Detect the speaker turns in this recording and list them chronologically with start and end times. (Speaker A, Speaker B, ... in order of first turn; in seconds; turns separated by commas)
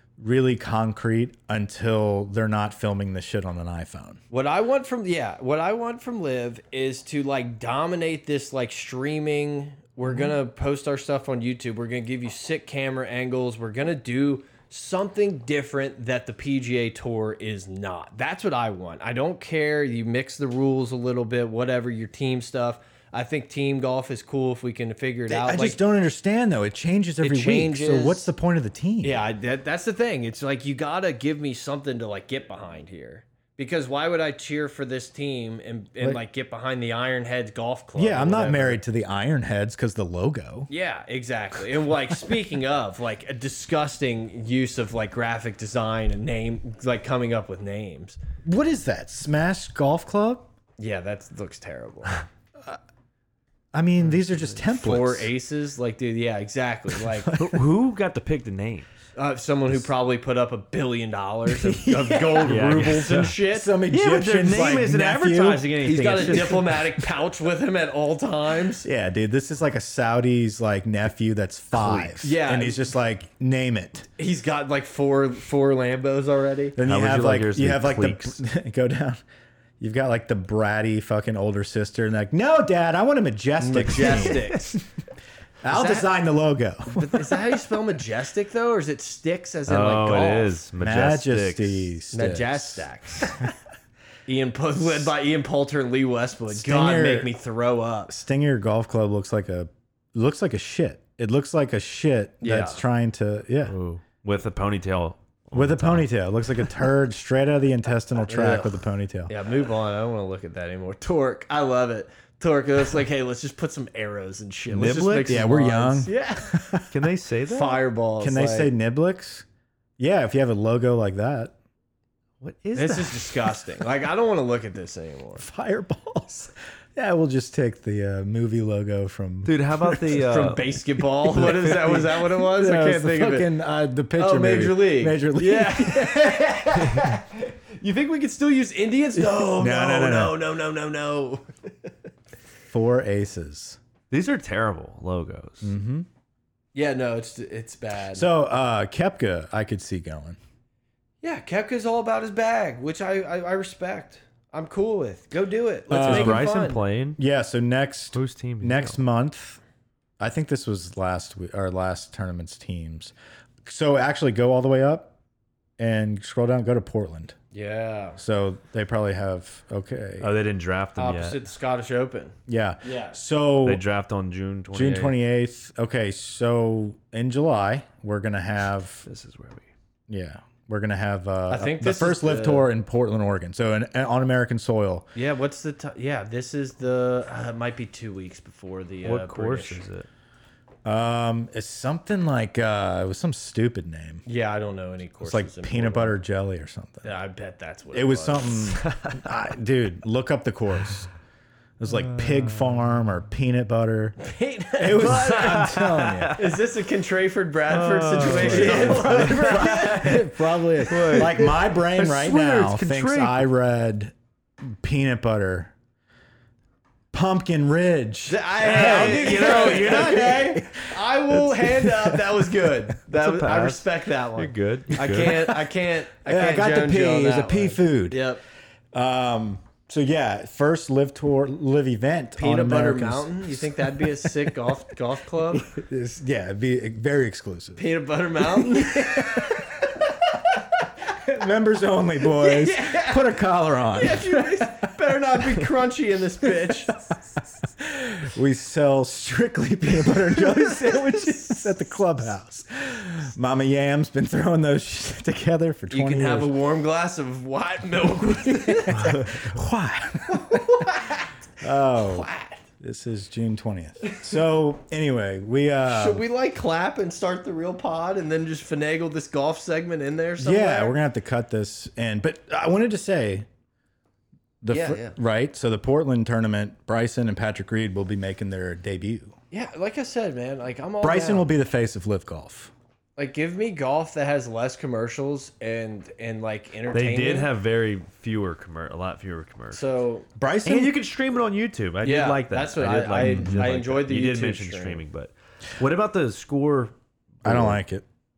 Speaker A: 0.2-4.2, Speaker B: 4.3-25.8, Speaker A: 25.3-29.2, Speaker B: 27.2-28.3, Speaker B: 29.0-38.8, Speaker A: 38.0-40.7, Speaker B: 40.7-48.2, Speaker A: 48.4-50.5, Speaker B: 50.8-52.2, Speaker A: 53.7-55.3, Speaker C: 54.1-54.5, Speaker B: 54.7-57.3, Speaker A: 57.3-57.6, Speaker C: 57.3-58.9, Speaker B: 59.1-63.7, Speaker A: 61.5-66.8, Speaker C: 62.4-63.3, Speaker C: 63.9-66.8, Speaker B: 66.0-68.8, Speaker A: 68.8-74.1, Speaker C: 71.8-72.1, Speaker B: 72.2-72.8, Speaker B: 74.2-76.8, Speaker A: 76.8-79.2, Speaker C: 76.8-78.4, Speaker A: 79.8-84.8, Speaker B: 83.6-84.7, Speaker A: 85.6-87.3, Speaker B: 85.7-86.1, Speaker B: 86.9-90.6, Speaker C: 89.7-91.9, Speaker A: 90.8-92.8, Speaker B: 92.1-93.4, Speaker B: 94.3-98.1, Speaker A: 96.5-97.3, Speaker A: 98.1-103.7, Speaker B: 102.4-102.8, Speaker C: 103.7-106.1, Speaker A: 105.5-109.3, Speaker B: 108.2-116.8, Speaker A: 114.7-116.9, Speaker C: 114.7-115.2, Speaker C: 116.9-117.8, Speaker B: 117.5-118.7, Speaker A: 118.2-119.5, Speaker A: 120.0-121.5, Speaker C: 122.4-123.6, Speaker B: 122.7-125.4, Speaker A: 125.4-130.2, Speaker C: 129.4-132.0, Speaker B: 130.1-133.5, Speaker A: 131.5-137.1, Speaker B: 134.2-141.9, Speaker A: 139.3-140.4, Speaker A: 142.7-143.8, Speaker C: 144.1-145.7, Speaker A: 145.6-146.1, Speaker B: 146.7-148.3, Speaker A: 148.1-150.4, Speaker B: 151.2-156.8, Speaker A: 155.9-156.5, Speaker C: 156.0-157.2, Speaker A: 157.2-159.6, Speaker C: 158.1-159.0, Speaker A: 160.2-163.1, Speaker A: 163.6-165.1, Speaker A: 165.8-167.3, Speaker B: 167.5-168.2, Speaker A: 168.2-170.3, Speaker C: 170.2-171.4, Speaker B: 171.0-173.2, Speaker A: 172.5-173.8, Speaker C: 173.6-175.2, Speaker A: 174.7-179.1, Speaker C: 179.1-179.7, Speaker A: 180.1-185.1, Speaker B: 181.5-182.7, Speaker B: 185.1-189.8, Speaker C: 189.0-190.1, Speaker A: 190.8-194.2, Speaker B: 194.2-196.2, Speaker A: 195.2-197.1, Speaker B: 197.0-198.8, Speaker A: 197.9-201.1, Speaker C: 198.8-199.2, Speaker A: 201.8-204.2, Speaker C: 201.9-202.9, Speaker B: 204.2-205.8, Speaker A: 204.8-206.4, Speaker C: 205.0-206.4, Speaker B: 206.3-211.5, Speaker C: 207.7-210.3, Speaker A: 208.2-215.7, Speaker C: 210.8-213.4, Speaker A: 217.1-222.4, Speaker B: 218.3-228.4, Speaker C: 218.6-220.5, Speaker C: 223.1-225.5, Speaker A: 225.1-225.6, Speaker A: 226.2-228.2, Speaker A: 228.9-234.3, Speaker B: 232.4-235.7, Speaker A: 235.6-237.8, Speaker B: 237.8-239.8, Speaker A: 238.4-240.0, Speaker A: 241.1-244.9, Speaker B: 242.3-246.9, Speaker A: 247.8-256.5, Speaker B: 250.9-251.5, Speaker B: 255.9-259.4, Speaker A: 258.9-260.8, Speaker C: 259.0-259.4, Speaker B: 260.3-261.4, Speaker A: 261.6-262.3, Speaker B: 261.9-262.6, Speaker A: 262.8-266.2, Speaker B: 265.9-270.9, Speaker A: 270.4-273.5, Speaker A: 274.6-279.3, Speaker B: 274.7-275.2, Speaker B: 279.5-281.5, Speaker A: 281.0-282.7, Speaker B: 283.2-287.5, Speaker C: 286.9-289.8, Speaker B: 289.7-290.3, Speaker A: 290.4-291.0, Speaker C: 290.6-297.8, Speaker B: 292.0-295.0, Speaker A: 293.2-293.7, Speaker A: 297.4-298.0